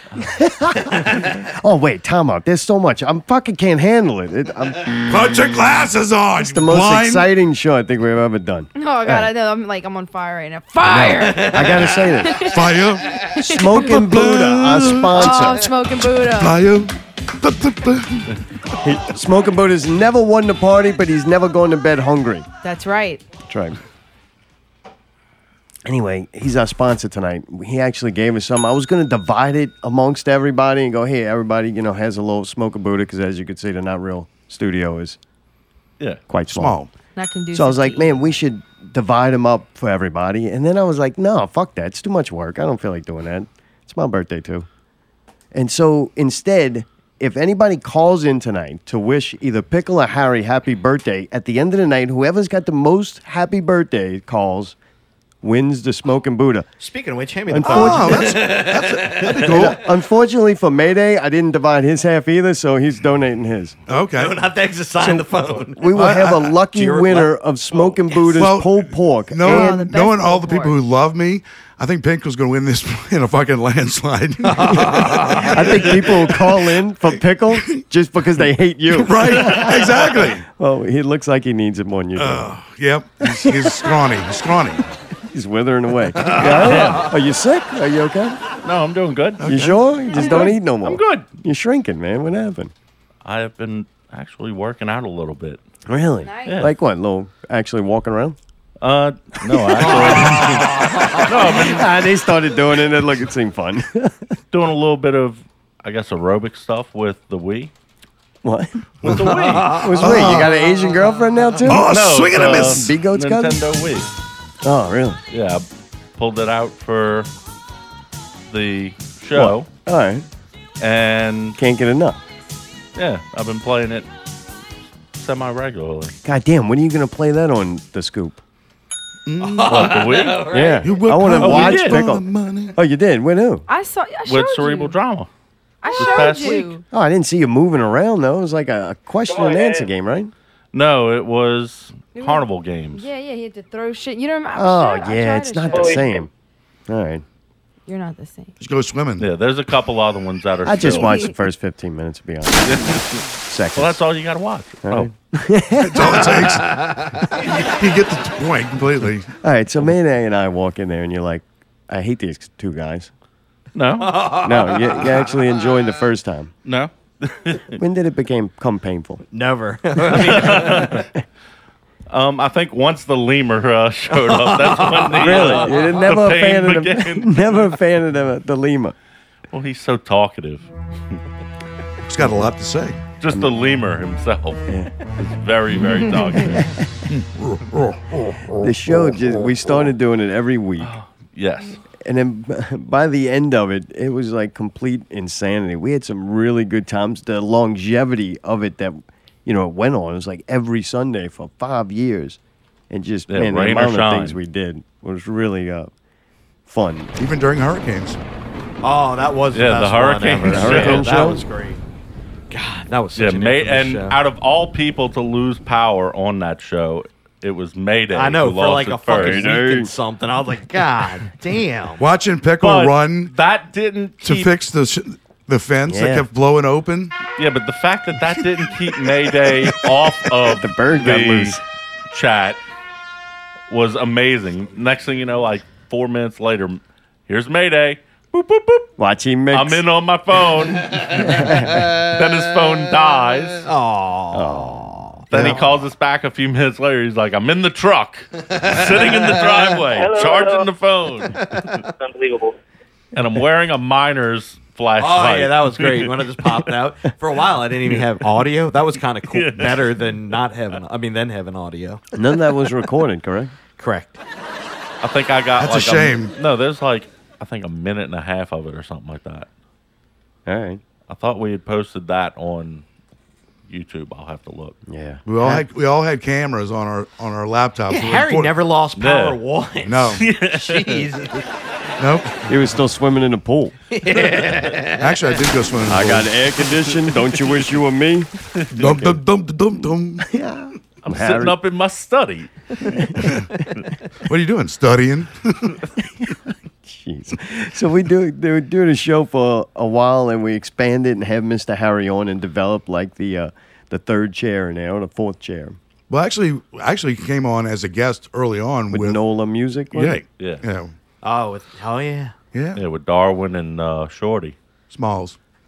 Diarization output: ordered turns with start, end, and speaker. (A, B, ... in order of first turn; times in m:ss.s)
0:00.2-0:04.9 A
0:05.1-0:07.3 B
0:06.4-0:09.3 A
0:08.8-0:12.6 C
0:10.8-0:12.4 A
0:11.6-0:11.8 D
0:12.5-0:13.2 B
0:13.3-0:15.7 A
0:13.8-0:15.3 B
0:15.1-0:16.5 C
0:16.2-0:18.4 B
0:18.8-0:22.5 A
0:22.6-0:23.2 C
0:23.5-0:23.8 A
0:25.9-0:35.2 A
0:36.3-0:36.8 A
0:36.5-0:36.9 B
0:37.1-0:38.2 C
0:37.5-0:44.7 A
0:45.5-0:54.8 A
0:55.4-0:56.7 A
0:56.8-0:59.7 D
0:57.5-0:58.3 A
0:57.6-0:59.8 B
0:59.4-1:03.8 A
1:03.9-1:04.4 B
1:04.1-1:05.9 D
1:05.0-1:09.8 A
1:05.9-1:06.5 B
1:06.7-1:08.3 D
1:08.4-1:16.2 B
1:09.4-1:10.7 C
1:14.5-1:15.6 D
1:15.5-1:22.5 A
1:17.5-1:17.8 B
1:18.9-1:20.4 B
1:22.2-1:24.8 B
1:25.3-1:28.4 A
1:26.7-1:27.0 E
1:28.6-1:31.3 E
1:29.4-1:29.8 B
1:29.4-1:32.7 A
1:33.2-1:35.6 E
1:35.9-1:38.4 A
1:36.2-1:36.6 C
1:38.8-1:41.9 E
1:39.9-1:41.2 D
1:41.5-1:44.2 A
1:44.5-1:47.7 E
1:48.4-1:48.8 A
1:49.0-1:50.4 E
1:49.2-1:49.8 D
1:49.7-1:53.6 A
1:50.0-1:50.5 B
1:50.7-1:51.0 D
1:51.6-1:52.8 B
1:51.7-1:54.1 E
1:54.6-1:55.2 A
1:55.3-1:55.6 E
1:56.2-1:57.3 E
1:58.5-1:59.7 E
1:59.4-2:00.2 A
2:00.8-2:01.6 E
2:01.6-2:02.2 A
2:03.0-2:04.1 E
2:05.2-2:06.2 E
2:06.2-2:08.4 A
2:09.2-2:10.0 B
2:09.6-2:10.7 D
2:09.6-2:10.6 E
2:10.5-2:12.2 A
2:10.8-2:12.8 B
2:11.4-2:12.0 E
2:12.8-2:13.6 A
2:13.7-2:15.0 C
2:14.3-2:15.3 E
2:15.8-2:16.8 C
2:16.0-2:16.8 E
2:16.9-2:20.3 A
2:19.3-2:19.8 F
2:20.7-2:23.0 E
2:22.1-2:26.2 C
2:24.5-2:26.3 A
2:25.7-2:26.2 F
2:26.9-2:27.2 A
2:27.9-2:28.5 C
2:28.6-2:29.3 B
2:29.2-2:31.2 E
2:30.6-2:34.0 A
2:30.8-2:31.3 C
2:32.7-2:33.0 E
2:33.8-2:35.1 E
2:34.8-2:36.3 A
2:35.8-2:36.8 B
2:37.3-2:39.3 B
2:39.4-2:43.1 A
2:43.8-2:44.4 E
2:44.0-2:44.9 D
2:44.4-2:46.5 A
2:46.6-2:47.8 E
2:47.8-2:49.2 A
2:49.3-2:51.0 D
2:50.1-2:51.0 E
2:52.1-2:57.6 E
2:54.1-2:55.6 D
2:55.2-2:59.0 A
2:59.5-3:00.7 E
3:02.1-3:03.0 B
3:03.2-3:06.7 E
3:07.1-3:09.2 B
3:08.6-3:10.9 A
3:10.8-3:11.8 E
3:12.0-3:22.4 A
3:22.9-3:25.9 A
3:23.3-3:24.4 E
3:26.6-3:27.1 A
3:27.2-3:28.2 B
3:28.8-3:31.8 D
3:29.5-3:31.2 E
3:30.4-3:31.4 A
3:32.5-3:34.2 D
3:33.1-3:39.6 E
3:38.1-3:42.0 D
3:39.1-3:39.9 A
3:42.0-3:43.3 B
3:42.6-3:44.5 E
3:44.2-3:47.1 B
3:45.9-3:46.3 A
3:47.4-3:51.6 E
3:50.5-3:51.6 A
3:52.1-3:52.6 E
3:53.7-3:58.9 E
3:59.0-3:59.8 A
3:59.5-4:03.6 E
4:01.3-4:01.7 A
4:03.6-4:05.5 D
4:04.3-4:05.5 A
4:05.3-4:11.4 E
4:08.6-4:09.8 D
4:09.9-4:10.7 F
4:12.0-4:12.6 F
4:13.1-4:16.7 E
4:15.0-4:22.0 D
4:19.3-4:20.0 E
4:22.1-4:23.5 A
4:23.8-4:24.2 D
4:25.0-4:29.5 E
4:25.6-4:26.3 B
4:30.5-4:30.8 A
4:31.1-4:32.8 E
4:33.7-4:34.8 E
4:34.9-4:35.6 A
4:35.2-4:38.5 B
4:37.9-4:41.5 D
4:39.0-4:39.4 E
4:39.8-4:40.2 B
4:40.2-4:41.1 E
4:42.0-4:42.3 B
4:42.5-4:43.8 A
4:43.9-4:45.1 D
4:45.0-4:46.3 B
4:45.9-4:48.3 A
4:48.8-4:50.3 B
4:48.8-4:49.1 A
4:50.3-4:51.5 A
4:51.0-4:52.5 E
4:54.2-4:55.8 B
4:56.8-5:05.8 A
5:06.1-5:09.2 B
5:08.9-5:10.2 A
5:09.9-5:10.9 B
5:11.2-5:12.3 D
5:12.5-5:12.8 B
5:12.8-5:14.5 E
5:14.9-5:15.4 B